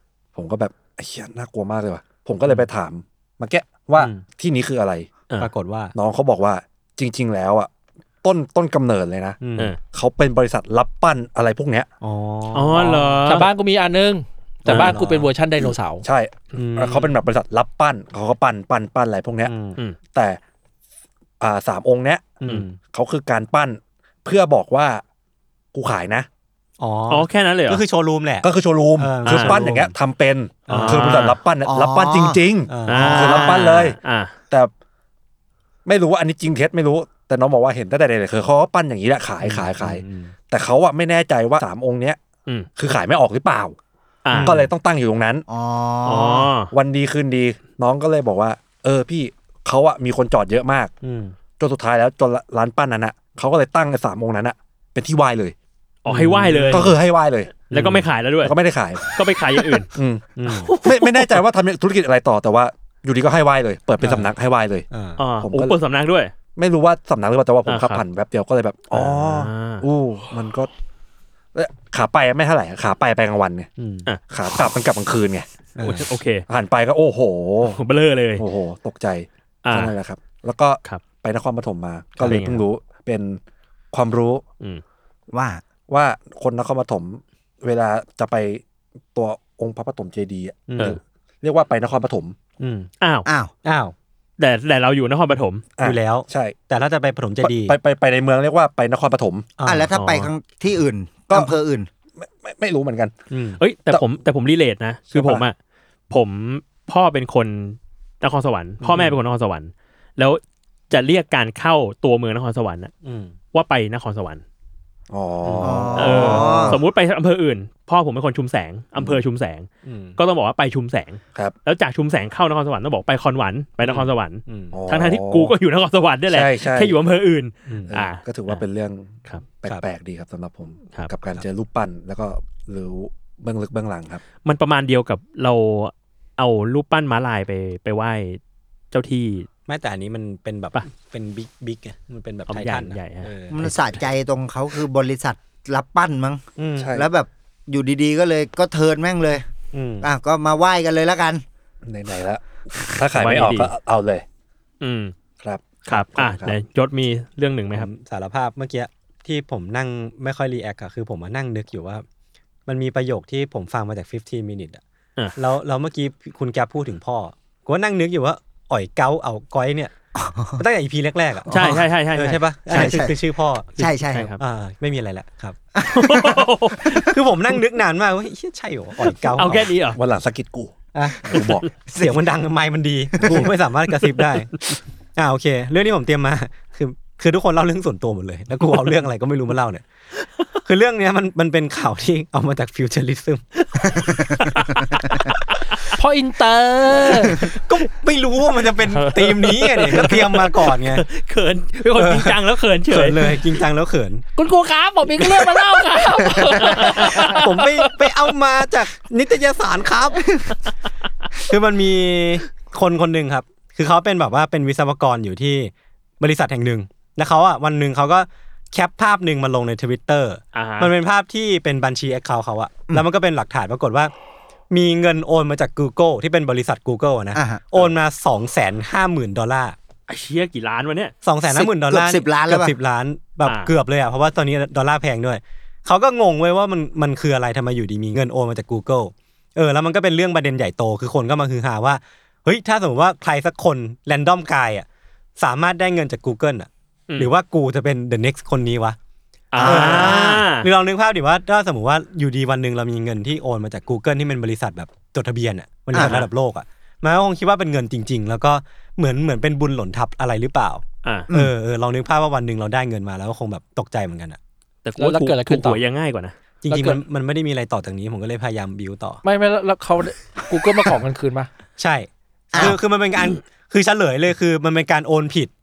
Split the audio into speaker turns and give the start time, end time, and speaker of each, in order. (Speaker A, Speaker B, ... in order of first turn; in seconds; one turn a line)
Speaker A: 0.3-5.1
Speaker B: 4.0-4.2
Speaker B: 5.4-5.9
Speaker A: 5.9-7.7
Speaker A: 8.2-11.9
Speaker B: 9.4-9.8
Speaker B: 12.0-13.2
Speaker C: 12.5-13.5
Speaker D: 13.2-16.0
Speaker C: 14.7-14.9
Speaker B: 14.7-15.3
Speaker A: 16.0-19.5
Speaker B: 16.5-17.1
Speaker B: 19.4-19.8
Speaker A: 20.1-20.4
Speaker A: 21.4-25.0
Speaker B: 22.4-22.8
Speaker A: 25.7-26.3
Speaker B: 26.8-28.4
Speaker C: 27.1-27.8
Speaker A: 28.4-34.0
Speaker B: 29.0-29.9
Speaker C: 29.2-29.6
Speaker B: 30.7-31.3
Speaker C: 30.7-31.4
Speaker E: 31.6-32.4
Speaker B: 32.7-33.6
Speaker C: 32.9-34.3
Speaker A: 35.8-42.2
Speaker B: 39.4-40.3
Speaker A: 42.8-43.8
Speaker C: 44.2-44.5
Speaker B: 44.3-44.7
Speaker A: 44.4-45.4
Speaker E: 45.5-46.5
Speaker C: 46.0-46.7
Speaker A: 46.7-50.9
Speaker B: 51.0-51.3
Speaker A: 51.6-55.5
Speaker C: 56.0-56.9
Speaker B: 56.1-57.0
Speaker A: 56.7-57.6
Speaker B: 57.7-58.1
Speaker C: 57.7-58.5
Speaker A: 58.4-59.1
Speaker C: 59.1-59.9
Speaker A: 59.9-64.9
Speaker B: 60.4-60.8
Speaker C: 60.5-61.4
Speaker B: 64.0-64.3
Speaker B: 64.9-65.2
Speaker C: 65.2-66.3
Speaker A: 65.4-65.8
Speaker A: 66.5-70.7
Speaker C: 67.7-68.0
Speaker C: 69.0-69.8
Speaker A: 71.5-73.7
Speaker B: 73.8-74.1
Speaker A: 74.3-75.5
Speaker B: 75.8-76.1
Speaker C: 75.8-76.5
Speaker A: 76.5-77.8
Speaker C: 77.6-78.4
Speaker A: 78.4-83.4
Speaker C: 79.6-79.9
Speaker C: 82.2-82.6
Speaker A: 83.9-84.4
Speaker E: 85.3-85.6
Speaker A: 85.9-88.6
Speaker A: 89.1-92.4
Speaker B: 90.7-91.0
Speaker B: 92.6-92.9
Speaker C: 93.0-93.3
Speaker E: 93.2-93.5
Speaker B: 93.6-93.9
Speaker C: 94.4-95.7
Speaker A: 95.8-96.6
Speaker B: 95.8-97.8
Speaker A: 97.4-99.5
Speaker B: 99.6-100.0
Speaker E: 99.7-101.9
Speaker A: 102.2-103.2
Speaker B: 103.3-103.6
Speaker C: 103.6-105.5
Speaker A: 105.1-105.5
Speaker C: 106.1-112.9
Speaker B: 108.8-109.2
Speaker B: 113.0-113.3
Speaker C: 113.5-114.4
Speaker A: 115.1-116.8
Speaker B: 115.4-115.9
Speaker E: 115.6-116.8
Speaker C: 115.9-128.6
Speaker A: 119.0-119.2
Speaker B: 119.8-120.2
Speaker B: 123.8-124.8
Speaker A: 124.7-125.5
Speaker A: 126.3-127.0
Speaker B: 127.7-127.9
Speaker A: 127.9-134.2
Speaker C: 134.4-138.4
Speaker C: 138.9-139.5
Speaker B: 139.7-143.7
Speaker C: 142.5-143.3
Speaker E: 143.5-149.4
Speaker B: 146.6-146.9
Speaker A: 146.8-147.1
Speaker B: 149.7-150.1
Speaker E: 150.0-151.4
Speaker A: 151.8-154.2
Speaker C: 153.1-153.7
Speaker C: 154.8-155.1
Speaker A: 155.4-156.5
Speaker C: 155.9-157.9
Speaker B: 157.7-162.0
Speaker B: 162.7-164.8
Speaker B: 165.3-169.9
Speaker E: 170.2-170.6
Speaker B: 170.6-173.7
Speaker C: 171.5-173.0
Speaker E: 171.5-171.8
Speaker E: 172.7-173.1
Speaker E: 173.8-174.3
Speaker C: 173.8-174.4
Speaker B: 174.4-175.6
Speaker E: 175.8-177.0
Speaker C: 175.9-177.1
Speaker B: 176.9-179.7
Speaker C: 179.3-180.0
Speaker A: 179.9-181.7
Speaker B: 180.9-181.3
Speaker C: 181.3-181.7
Speaker B: 181.9-189.8
Speaker E: 183.2-183.4
Speaker A: 183.2-183.5
Speaker B: 190.6-193.4
Speaker C: 193.6-195.8
Speaker D: 196.0-197.4
Speaker B: 197.1-201.1
Speaker C: 199.2-203.4
Speaker B: 201.9-202.4
Speaker B: 202.9-204.2
Speaker D: 204.3-207.9
Speaker C: 206.6-207.2
Speaker B: 206.8-210.3
Speaker B: 211.5-224.1
Speaker C: 220.5-220.9
Speaker B: 224.7-229.8
Speaker E: 227.3-227.8
Speaker C: 230.1-231.1
Speaker B: 231.2-244.8
Speaker E: 231.5-232.7
Speaker C: 233.4-233.7
Speaker B: 245.4-249.0
Speaker C: 249.5-250.7
Speaker E: 249.6-250.4
Speaker B: 249.6-264.4
Speaker E: 255.9-256.2
Speaker C: 255.9-256.3
Speaker C: 261.0-261.3
Speaker C: 264.8-266.4
Speaker D: 265.0-265.8
Speaker B: 266.6-269.2
Speaker D: 266.7-267.0
Speaker D: 269.2-271.5
Speaker B: 271.8-275.5